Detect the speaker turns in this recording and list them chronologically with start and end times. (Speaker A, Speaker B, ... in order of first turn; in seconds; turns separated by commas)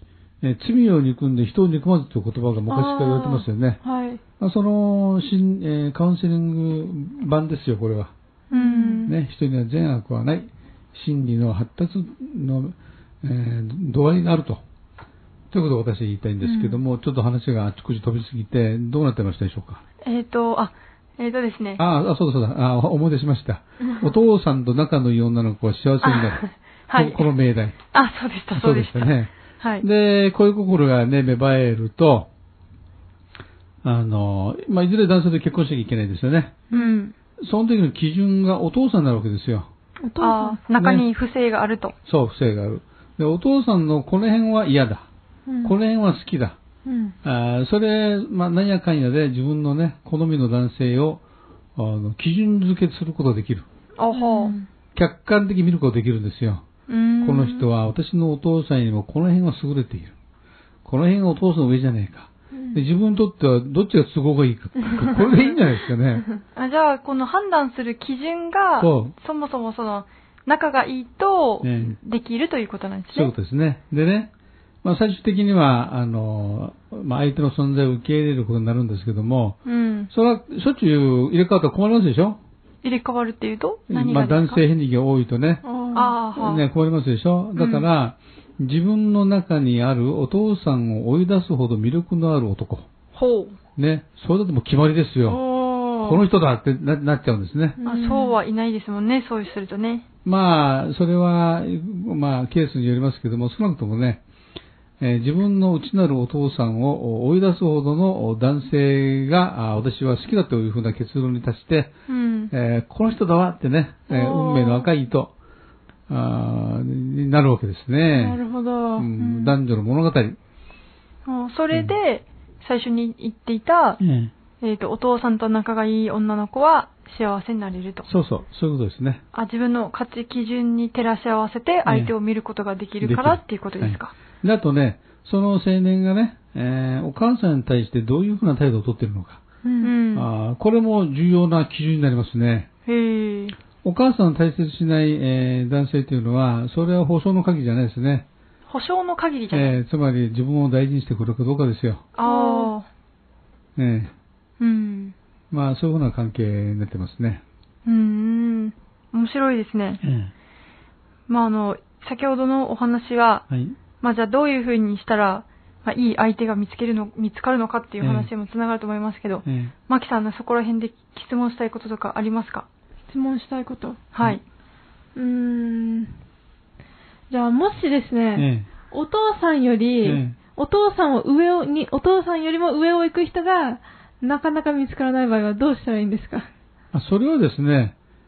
Speaker A: 0.4-3.8, Speaker B: 2.7-4.2, Speaker A: 4.4-8.1, Speaker B: 8.5-9.1, Speaker C: 8.5-9.1, Speaker A: 9.1-14.6, Speaker A: 15.5-19.8, Speaker B: 16.4-16.8, Speaker C: 20.0-21.8, Speaker A: 21.8-27.8, Speaker C: 26.0-27.3, Speaker C: 27.9-29.8, Speaker A: 28.5-32.3, Speaker A: 33.8-36.7, Speaker C: 36.7-37.1, Speaker A: 37.4-39.7, Speaker B: 40.0-40.6, Speaker C: 40.2-41.9, Speaker A: 40.8-41.0, Speaker A: 42.0-45.0, Speaker B: 45.5-45.8, Speaker A: 45.6-46.6, Speaker B: 46.9-47.1, Speaker A: 47.2-51.2, Speaker A: 51.8-53.6, Speaker C: 54.0-54.5, Speaker B: 54.1-54.7, Speaker A: 54.9-56.6, Speaker C: 56.9-57.7, Speaker A: 57.2-60.1, Speaker A: 60.8-66.2, Speaker B: 62.5-62.8, Speaker C: 66.5-73.3, Speaker A: 68.8-69.1, Speaker A: 71.6-72.0, Speaker A: 73.1-74.3, Speaker A: 74.8-79.6, Speaker C: 79.7-80.1, Speaker A: 80.1-82.4, Speaker C: 82.8-84.6, Speaker A: 83.9-85.6, Speaker B: 85.6-86.2, Speaker C: 85.9-86.6, Speaker A: 86.3-92.9, Speaker C: 87.5-87.9, Speaker C: 93.1-93.6, Speaker A: 93.8-95.4, Speaker B: 95.3-96.2, Speaker A: 96.0-97.8, Speaker B: 97.8-98.4, Speaker C: 97.8-100.0, Speaker A: 100.2-104.2, Speaker A: 105.0-111.9, Speaker C: 112.1-112.5, Speaker A: 112.5-115.3, Speaker B: 114.1-114.9, Speaker A: 116.1-118.4, Speaker B: 118.1-119.5, Speaker A: 119.0-120.4, Speaker C: 121.2-124.0, Speaker A: 124.0-124.3, Speaker C: 124.6-128.1, Speaker A: 128.0-129.2, Speaker C: 129.3-134.1, Speaker A: 131.8-132.1, Speaker A: 133.0-139.4, Speaker B: 139.6-139.9, Speaker C: 139.8-140.3, Speaker A: 140.1-142.7, Speaker C: 142.9-143.6, Speaker A: 143.8-148.2, Speaker C: 148.7-149.7, Speaker A: 149.5-152.0, Speaker C: 152.2-152.8, Speaker B: 152.2-152.7, Speaker A: 153.8-154.1, Speaker C: 154.6-155.1, Speaker A: 155.5-157.4, Speaker C: 157.8-160.0, Speaker A: 160.0-160.3, Speaker C: 161.3-163.4, Speaker A: 163.5-163.8, Speaker C: 164.0-172.7, Speaker A: 168.0-168.3, Speaker A: 169.4-169.7, Speaker B: 173.1-174.0, Speaker C: 174.1-174.4, Speaker B: 175.1-176.1, Speaker B: 177.3-186.5, Speaker A: 178.3-178.7, Speaker A: 180.0-180.4, Speaker A: 186.9-187.9